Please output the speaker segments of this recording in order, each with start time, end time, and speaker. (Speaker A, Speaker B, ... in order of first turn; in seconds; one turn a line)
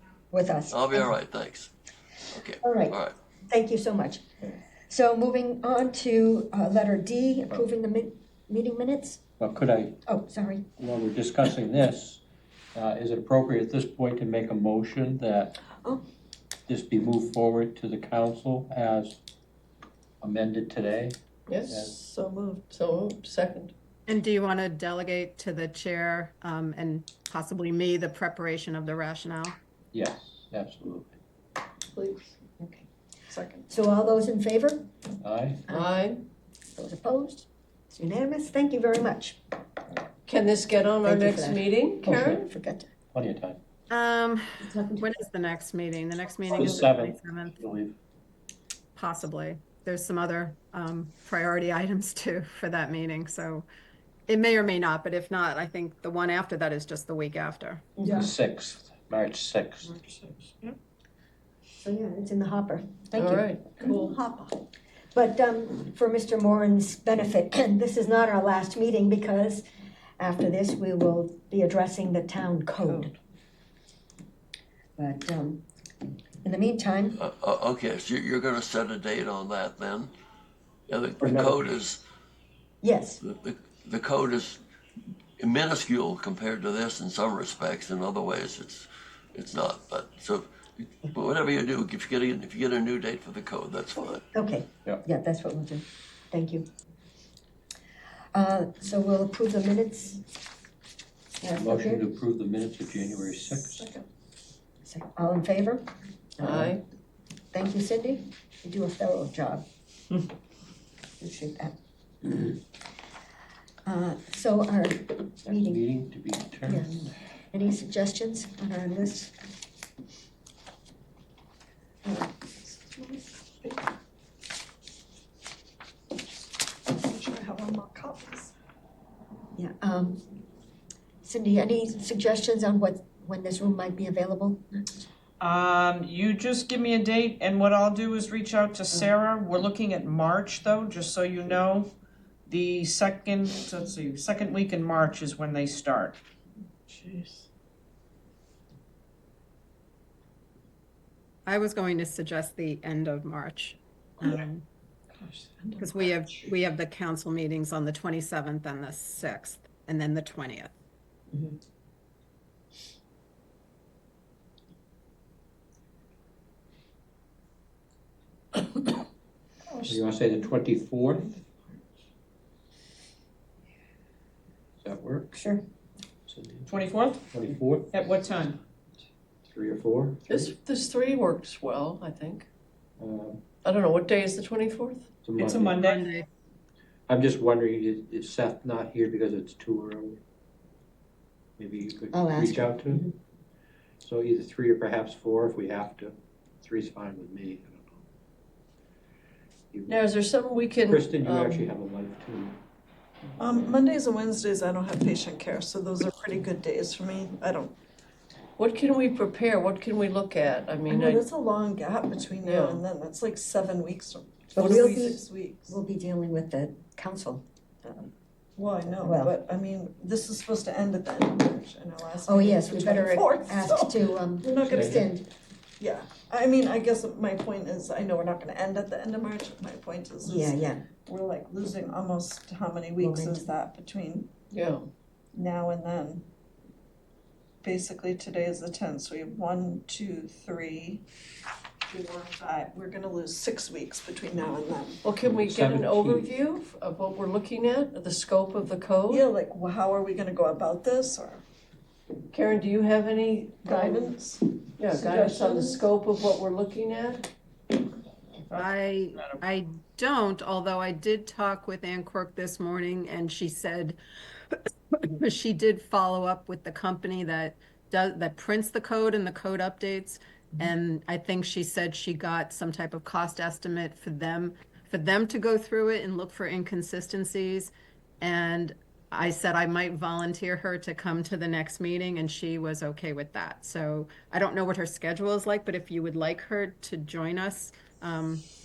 Speaker A: 0.3-1.1
Speaker B: 0.7-1.7
Speaker B: 2.3-3.1
Speaker A: 2.6-3.0
Speaker A: 3.5-4.2
Speaker A: 4.9-9.2
Speaker C: 9.4-10.0
Speaker A: 10.1-10.6
Speaker C: 10.8-12.2
Speaker C: 12.7-15.6
Speaker C: 16.7-19.2
Speaker C: 20.2-21.9
Speaker D: 21.5-23.7
Speaker E: 22.1-22.7
Speaker F: 24.1-29.6
Speaker C: 29.9-31.2
Speaker D: 31.9-32.3
Speaker A: 32.6-32.9
Speaker E: 33.3-33.6
Speaker A: 33.7-34.8
Speaker C: 35.2-35.6
Speaker A: 35.7-36.0
Speaker D: 35.7-36.2
Speaker A: 36.8-39.4
Speaker D: 40.2-42.5
Speaker A: 41.0-42.9
Speaker C: 43.1-43.6
Speaker F: 43.9-47.6
Speaker A: 44.6-45.0
Speaker C: 46.5-47.9
Speaker F: 49.0-53.6
Speaker F: 54.3-57.8
Speaker A: 58.0-58.3
Speaker C: 58.0-60.0
Speaker A: 61.8-64.5
Speaker D: 63.1-64.2
Speaker A: 65.1-69.6
Speaker A: 70.2-73.1
Speaker A: 75.0-75.6
Speaker A: 76.4-77.2
Speaker B: 77.1-80.1
Speaker B: 80.9-82.0
Speaker C: 81.2-81.7
Speaker A: 82.8-83.2
Speaker B: 83.2-84.6
Speaker B: 85.4-94.2
Speaker A: 94.3-96.7
Speaker A: 98.3-100.2
Speaker A: 101.4-102.0
Speaker C: 101.5-103.8
Speaker D: 103.8-104.0
Speaker A: 104.8-105.8
Speaker A: 106.4-106.8
Speaker D: 106.4-106.8
Speaker A: 107.5-109.6
Speaker A: 111.2-111.7
Speaker A: 113.8-115.8
Speaker C: 115.5-117.1
Speaker A: 116.6-119.3
Speaker E: 126.9-128.5
Speaker A: 129.6-130.2
Speaker A: 131.2-134.6
Speaker G: 135.4-141.9
Speaker G: 142.5-146.2
Speaker D: 146.9-147.4
Speaker F: 151.4-154.6
Speaker E: 155.1-156.5
Speaker F: 155.8-160.7
Speaker E: 169.7-170.0
Speaker C: 169.9-171.4
Speaker C: 174.8-175.3
Speaker A: 175.3-175.6
Speaker C: 176.3-176.7
Speaker G: 176.7-177.2
Speaker C: 177.3-177.9
Speaker G: 177.9-178.6
Speaker C: 179.5-180.5
Speaker D: 180.3-182.5
Speaker C: 183.0-183.4
Speaker D: 183.6-185.1
Speaker C: 185.2-185.8
Speaker G: 185.3-186.1
Speaker F: 185.8-186.2
Speaker C: 187.1-190.2
Speaker C: 191.6-193.1
Speaker A: 192.1-193.1
Speaker C: 194.0-198.0
Speaker C: 199.7-200.0
Speaker D: 199.9-201.7
Speaker C: 200.8-202.6
Speaker E: 203.4-207.7
Speaker D: 208.6-211.2
Speaker E: 210.9-215.8
Speaker D: 212.4-212.8
Speaker A: 214.5-218.1
Speaker E: 218.6-225.1
Speaker A: 219.0-219.3
Speaker A: 222.2-225.2
Speaker C: 224.7-225.0
Speaker E: 225.8-234.3
Speaker A: 230.2-230.8
Speaker A: 233.0-233.5
Speaker D: 234.5-234.9
Speaker E: 235.3-236.2
Speaker E: 237.6-241.0
Speaker E: 241.8-245.0
Speaker D: 245.0-249.2
Speaker C: 245.2-246.3
Speaker E: 249.1-251.4
Speaker D: 252.3-254.1
Speaker E: 253.6-255.8
Speaker D: 254.8-257.3
Speaker F: 258.5-264.0
Speaker F: 264.5-288.4